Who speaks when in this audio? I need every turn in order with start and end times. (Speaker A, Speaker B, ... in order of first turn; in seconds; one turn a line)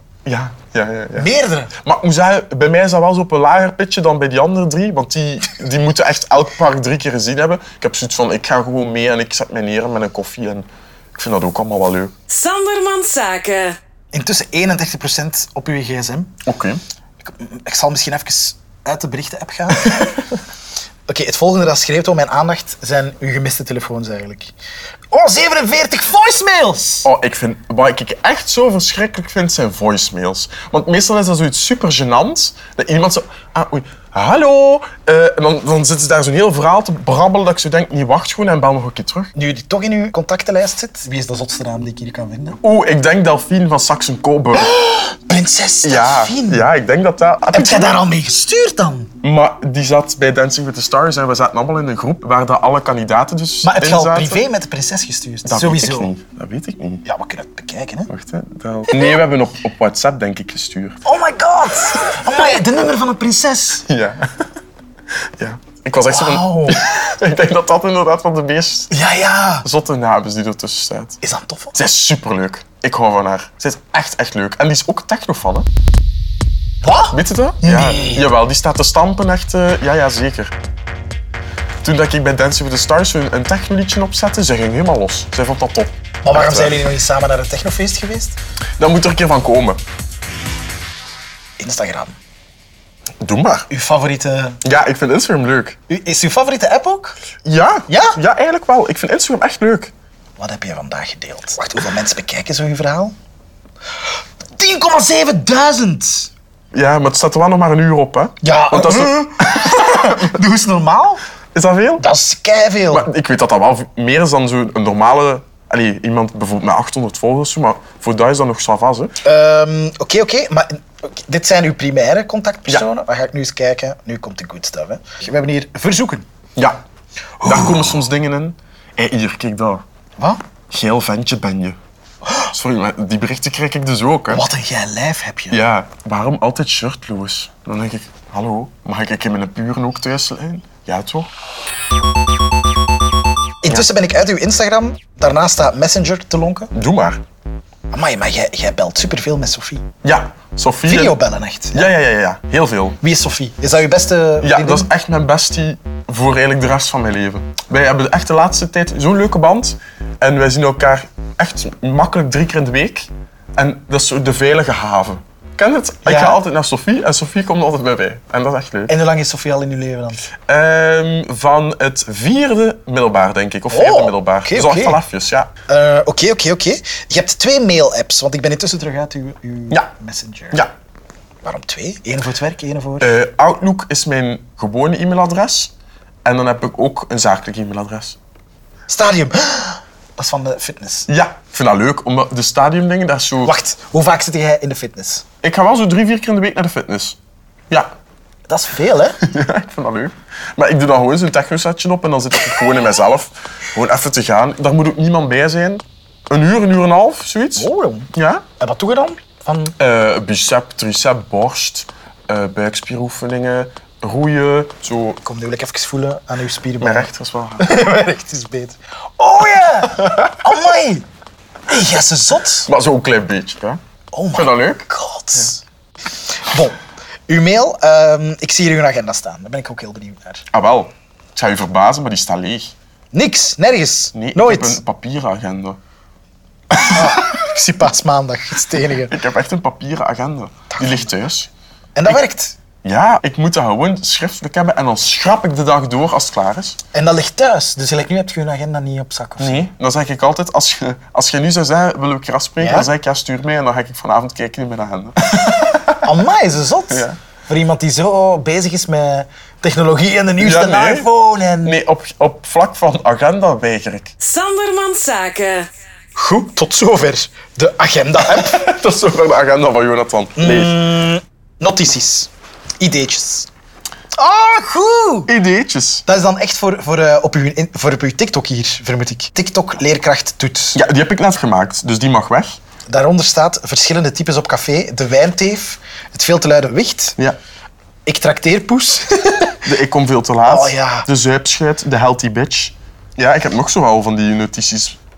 Speaker A: 0.2-12.1
Speaker B: 1.1-1.7
Speaker C: 12.3-13.8
Speaker B: 14.1-16.4
Speaker A: 16.4-16.8
Speaker B: 17.2-20.4
Speaker B: 21.1-24.5
Speaker B: 25.1-27.1
Speaker A: 27.1-39.3
Speaker B: 39.4-42.6
Speaker A: 42.6-44.7
Speaker B: 44.6-46.7
Speaker A: 45.8-48.0
Speaker B: 47.5-49.1
Speaker A: 49.2-54.5
Speaker B: 53.6-56.1
Speaker A: 55.5-57.0
Speaker B: 57.0-58.1
Speaker A: 58.1-61.0
Speaker B: 61.0-63.9
Speaker A: 63.9-64.5
Speaker A: 65.2-68.9
Speaker B: 66.1-66.8
Speaker B: 68.9-69.7
Speaker A: 69.6-71.2
Speaker B: 71.2-71.8
Speaker A: 71.7-75.7
Speaker B: 76.8-78.3
Speaker A: 77.1-80.5
Speaker A: 81.8-86.8
Speaker B: 86.2-88.4
Speaker A: 88.8-89.8
Speaker B: 91.6-92.2
Speaker A: 93.2-93.7
Speaker B: 93.7-94.6
Speaker A: 94.6-95.8
Speaker B: 95.9-97.2
Speaker A: 97.5-99.9
Speaker B: 97.9-98.2
Speaker B: 100.4-103.2
Speaker B: 104.6-106.3
Speaker A: 106.7-110.3
Speaker B: 108.4-111.2
Speaker A: 111.5-112.0
Speaker B: 112.0-113.1
Speaker A: 112.9-119.2
Speaker B: 119.2-126.3
Speaker A: 126.6-126.8
Speaker B: 127.4-128.0
Speaker A: 127.4-129.8
Speaker A: 130.7-131.8
Speaker A: 132.5-134.4
Speaker B: 134.3-135.6
Speaker A: 135.5-141.3
Speaker B: 143.6-146.7
Speaker A: 146.7-147.2
Speaker B: 147.9-149.8
Speaker A: 150.0-151.2
Speaker B: 150.9-151.9
Speaker A: 151.7-153.0
Speaker B: 153.0-154.9
Speaker A: 154.4-168.9
Speaker B: 166.1-166.4
Speaker B: 168.9-170.3
Speaker A: 170.4-175.5
Speaker B: 173.7-175.0
Speaker B: 175.7-180.6
Speaker B: 181.4-183.1
Speaker A: 183.0-185.7
Speaker A: 186.2-188.2
Speaker B: 188.9-191.1
Speaker A: 191.1-193.5
Speaker B: 193.4-195.2
Speaker A: 195.4-197.2
Speaker B: 198.5-199.2
Speaker A: 199.2-208.4
Speaker B: 207.6-209.8
Speaker A: 209.8-215.2
Speaker B: 215.2-221.1
Speaker A: 216.8-217.7
Speaker A: 220.0-220.3
Speaker B: 221.7-222.7
Speaker A: 222.7-223.8
Speaker B: 224.1-225.6
Speaker A: 224.3-225.5
Speaker B: 226.4-230.4
Speaker A: 230.5-232.7
Speaker B: 233.1-234.8
Speaker A: 234.1-235.8
Speaker A: 236.7-237.5
Speaker B: 236.8-239.2
Speaker A: 238.9-241.5
Speaker B: 240.7-241.1
Speaker B: 242.0-242.6
Speaker A: 242.8-246.8
Speaker B: 246.9-249.7
Speaker A: 249.4-256.1
Speaker B: 252.6-252.9
Speaker B: 256.0-261.8
Speaker A: 256.9-257.2
Speaker A: 260.4-261.1
Speaker A: 261.6-264.1
Speaker C: 264.2-265.7
Speaker B: 266.2-268.8
Speaker A: 268.2-270.8
Speaker B: 270.4-272.3
Speaker B: 272.8-273.5
Speaker B: 274.2-275.3
Speaker A: 275.3-276.0
Speaker B: 276.1-280.8
Speaker A: 280.7-282.6
Speaker B: 282.9-287.2
Speaker B: 288.1-289.6
Speaker A: 289.6-295.0
Speaker B: 290.5-291.1